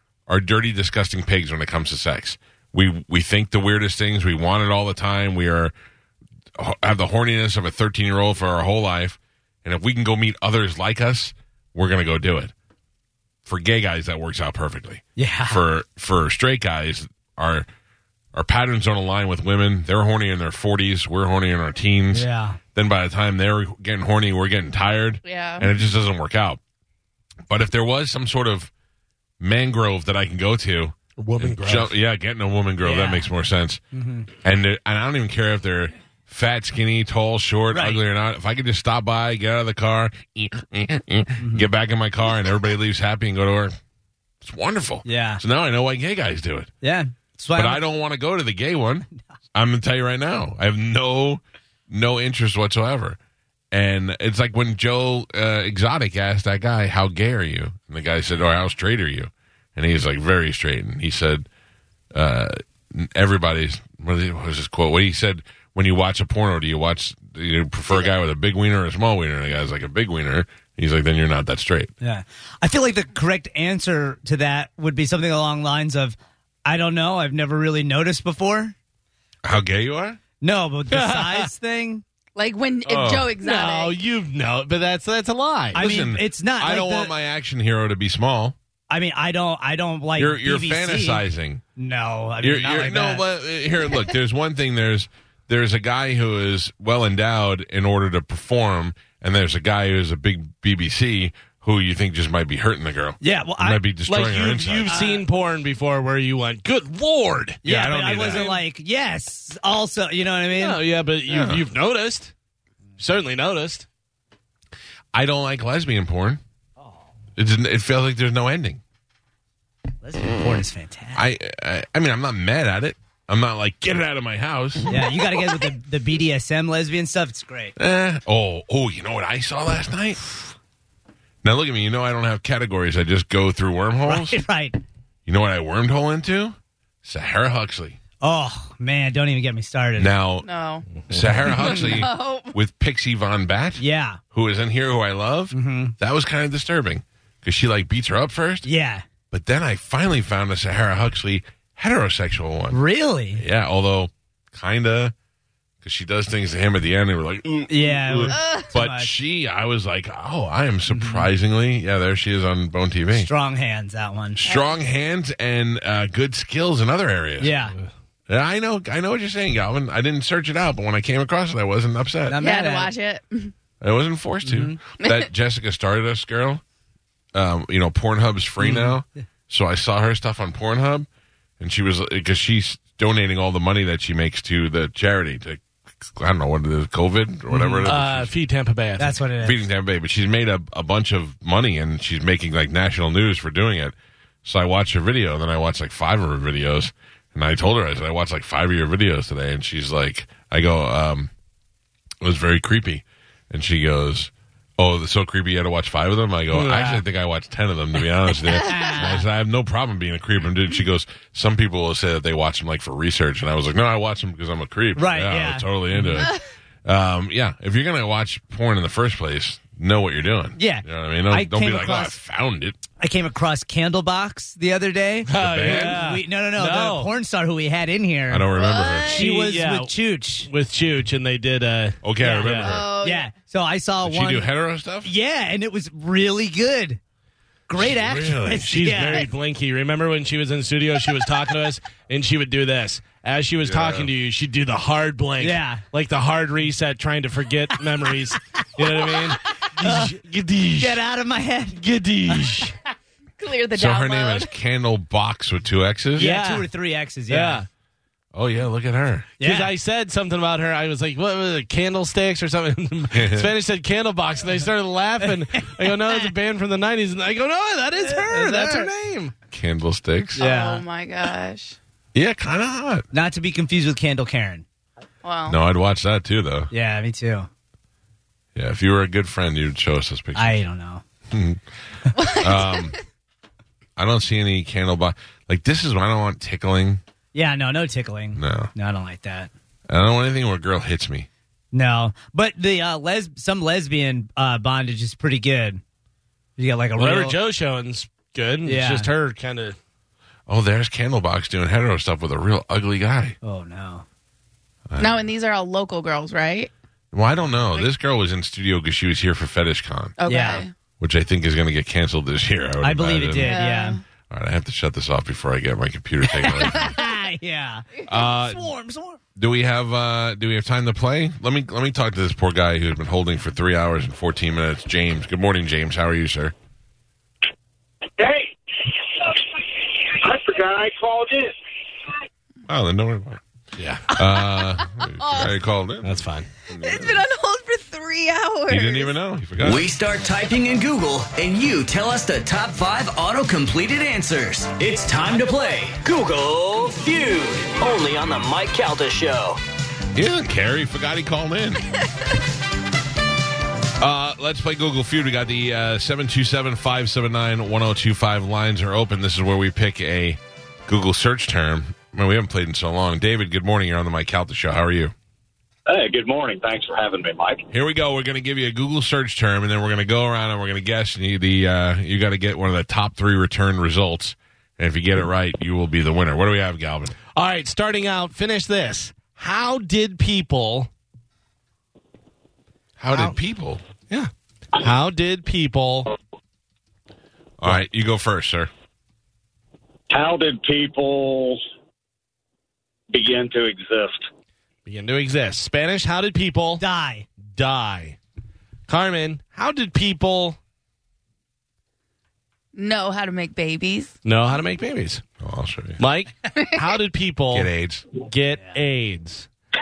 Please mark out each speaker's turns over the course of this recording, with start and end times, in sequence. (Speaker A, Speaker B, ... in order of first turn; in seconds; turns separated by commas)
Speaker A: 0.3-5.7, Speaker A: 6.6-12.5, Speaker A: 13.5-17.7, Speaker B: 15.2-15.6, Speaker A: 18.3-26.6, Speaker B: 22.1-22.6, Speaker C: 25.2-25.7, Speaker A: 27.5-28.7, Speaker A: 29.4-33.8, Speaker D: 31.2-31.9, Speaker B: 32.8-33.3, Speaker B: 33.9-34.3, Speaker A: 34.4-43.8, Speaker B: 37.7-38.0, Speaker B: 41.4-41.7, Speaker A: 44.4-46.7, Speaker B: 45.0-45.4, Speaker B: 46.8-47.8, Speaker A: 47.5-53.2, Speaker A: 53.7-61.5, Speaker A: 62.1-71.9, Speaker B: 72.0-78.8, Speaker A: 79.4-80.2, Speaker B: 80.4-82.0, Speaker D: 80.9-81.5, Speaker C: 82.4-84.0, Speaker A: 82.9-83.3, Speaker D: 83.4-85.9, Speaker B: 85.7-87.1, Speaker A: 85.7-88.6, Speaker B: 88.9-91.2, Speaker A: 90.2-91.6, Speaker B: 91.8-93.2, Speaker A: 92.4-104.9, Speaker B: 103.2-103.9, Speaker D: 104.0-107.6, Speaker B: 104.8-105.2, Speaker B: 107.6-110.8, Speaker A: 107.7-108.6, Speaker D: 108.3-108.6, Speaker D: 110.5-112.3, Speaker A: 111.3-111.6, Speaker D: 113.0-113.9, Speaker A: 115.1-116.4, Speaker A: 117.4-118.8, Speaker B: 120.0-121.2, Speaker A: 121.2-124.9, Speaker B: 124.8-127.8, Speaker A: 127.8-130.3, Speaker A: 131.4-134.4, Speaker B: 134.1-134.8, Speaker A: 135.3-138.0, Speaker B: 138.2-140.2, Speaker A: 140.0-140.5, Speaker C: 140.4-140.9, Speaker A: 141.1-148.7, Speaker C: 141.5-142.6, Speaker B: 143.8-144.2, Speaker B: 145.5-145.9, Speaker B: 148.6-149.1, Speaker A: 149.3-152.8, Speaker B: 152.7-153.4, Speaker A: 153.4-155.1, Speaker A: 155.8-163.3, Speaker B: 157.7-159.1, Speaker C: 158.3-158.7, Speaker B: 160.9-161.3, Speaker B: 163.1-164.4, Speaker A: 164.3-167.5, Speaker C: 164.5-164.8, Speaker B: 167.4-167.8, Speaker A: 168.3-172.4, Speaker B: 172.3-172.9, Speaker C: 172.3-173.5, Speaker A: 173.8-176.6, Speaker B: 174.4-174.8, Speaker C: 175.0-175.3, Speaker A: 177.3-181.1, Speaker B: 178.6-179.0, Speaker A: 181.6-188.3, Speaker B: 187.5-187.9, Speaker D: 187.8-189.2, Speaker B: 189.0-189.7, Speaker A: 189.4-201.3, Speaker A: 202.2-222.8, Speaker D: 206.5-207.1, Speaker B: 208.5-209.2, Speaker B: 214.9-216.3, Speaker B: 220.6-222.2, Speaker B: 223.0-228.5, Speaker D: 225.2-227.1, Speaker A: 225.3-226.2, Speaker A: 228.3-229.3, Speaker C: 228.5-229.4, Speaker B: 229.1-230.5, Speaker D: 229.2-232.8, Speaker A: 232.0-232.9, Speaker B: 232.2-234.5, Speaker C: 232.7-233.3, Speaker A: 234.0-235.1, Speaker B: 235.0-237.0, Speaker B: 237.7-239.3, Speaker A: 237.8-238.6, Speaker D: 238.6-251.0, Speaker A: 243.6-244.1, Speaker B: 245.4-245.8, Speaker B: 249.2-250.1, Speaker B: 250.8-252.7, Speaker D: 251.7-252.7, Speaker C: 253.4-254.6, Speaker A: 253.7-256.3, Speaker D: 256.1-256.7, Speaker B: 256.2-257.7, Speaker D: 257.3-257.7, Speaker A: 258.3-259.3, Speaker B: 259.4-259.7, Speaker D: 259.4-269.3, Speaker A: 263.1-263.5, Speaker B: 268.0-268.9, Speaker A: 269.5-270.5, Speaker C: 270.4-271.8, Speaker B: 270.4-270.8, Speaker A: 272.1-273.1, Speaker B: 273.1-274.6, Speaker C: 275.2-275.6, Speaker A: 275.5-276.7, Speaker B: 276.7-277.5, Speaker A: 278.6-280.6, Speaker B: 280.4-281.0, Speaker A: 281.3-281.6, Speaker C: 282.2-282.9, Speaker A: 282.4-283.0, Speaker A: 284.0-287.0, Speaker B: 287.3-289.5, Speaker A: 288.4-288.7, Speaker A: 289.9-291.3, Speaker B: 291.7-295.8, Speaker B: 296.6-297.4, Speaker D: 297.0-299.8, Speaker B: 298.6-299.1, Speaker A: 300.5-303.4, Speaker B: 303.4-304.1, Speaker A: 304.9-305.2, Speaker C: 305.0-306.7, Speaker A: 307.1-310.2, Speaker C: 310.2-310.7, Speaker B: 310.2-310.7, Speaker A: 311.0-313.6, Speaker B: 312.8-314.0, Speaker C: 313.4-314.0, Speaker A: 314.3-316.9, Speaker B: 316.4-319.2, Speaker A: 318.1-318.7, Speaker A: 319.4-326.5, Speaker A: 332.7-333.4, Speaker D: 333.8-334.1, Speaker A: 334.1-337.3, Speaker C: 334.1-335.6, Speaker D: 336.0-336.5, Speaker C: 336.8-339.2, Speaker A: 338.7-340.0, Speaker E: 339.6-349.6, Speaker A: 350.1-351.9, Speaker A: 354.0-365.1, Speaker F: 365.9-367.6, Speaker A: 367.7-377.1, Speaker D: 377.3-380.9, Speaker A: 383.0-383.9, Speaker D: 383.1-383.4, Speaker D: 384.1-386.1, Speaker A: 387.6-388.7, Speaker F: 390.1-391.6, Speaker F: 393.1-394.3, Speaker D: 394.9-396.8, Speaker B: 396.8-397.3, Speaker D: 397.4-398.2, Speaker D: 398.9-400.6, Speaker C: 402.8-404.1, Speaker D: 404.2-405.2, Speaker A: 405.4-406.0, Speaker D: 406.0-409.5, Speaker C: 406.4-406.7, Speaker A: 407.5-408.1